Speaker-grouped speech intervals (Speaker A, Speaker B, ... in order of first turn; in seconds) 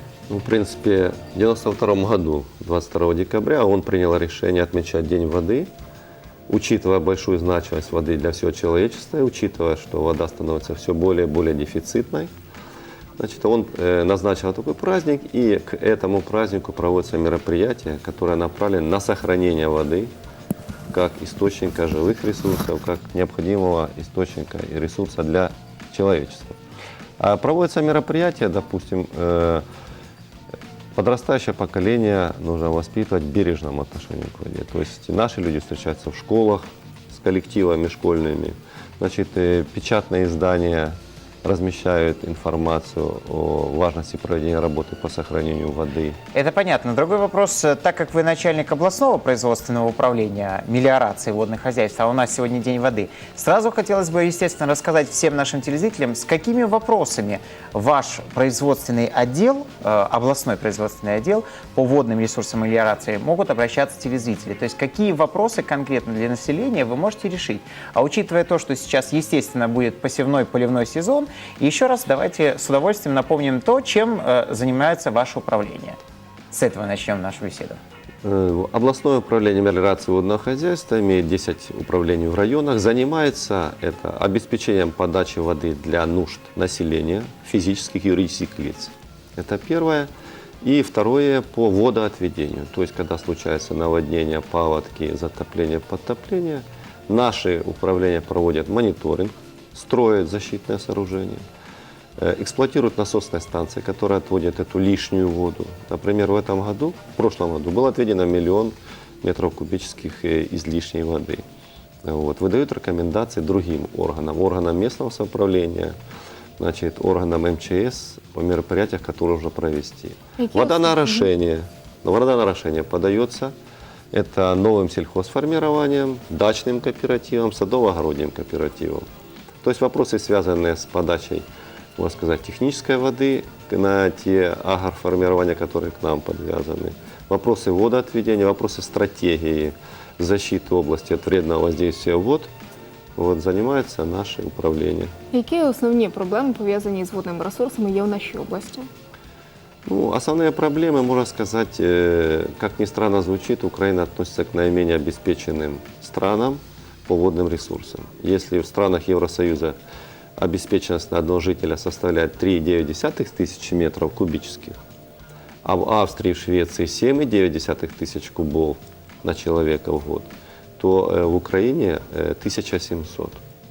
Speaker A: 0.3-5.7, 6.5-12.3, 13.2-20.1, 20.9-26.6, 27.2-29.6, 30.9-46.2, 78.2-90.1, 90.6-101.4, 102.2-111.4, 112.0-116.0, 116.6-123.5, 124.1-129.1, 129.6-131.4, 132.0-142.5, 143.2-145.1, 149.8-159.8, 160.4-164.8, 165.6-173.4
Speaker B: 46.3-76.0, 76.5-77.8
Speaker C: 120.4-121.2, 145.3-148.9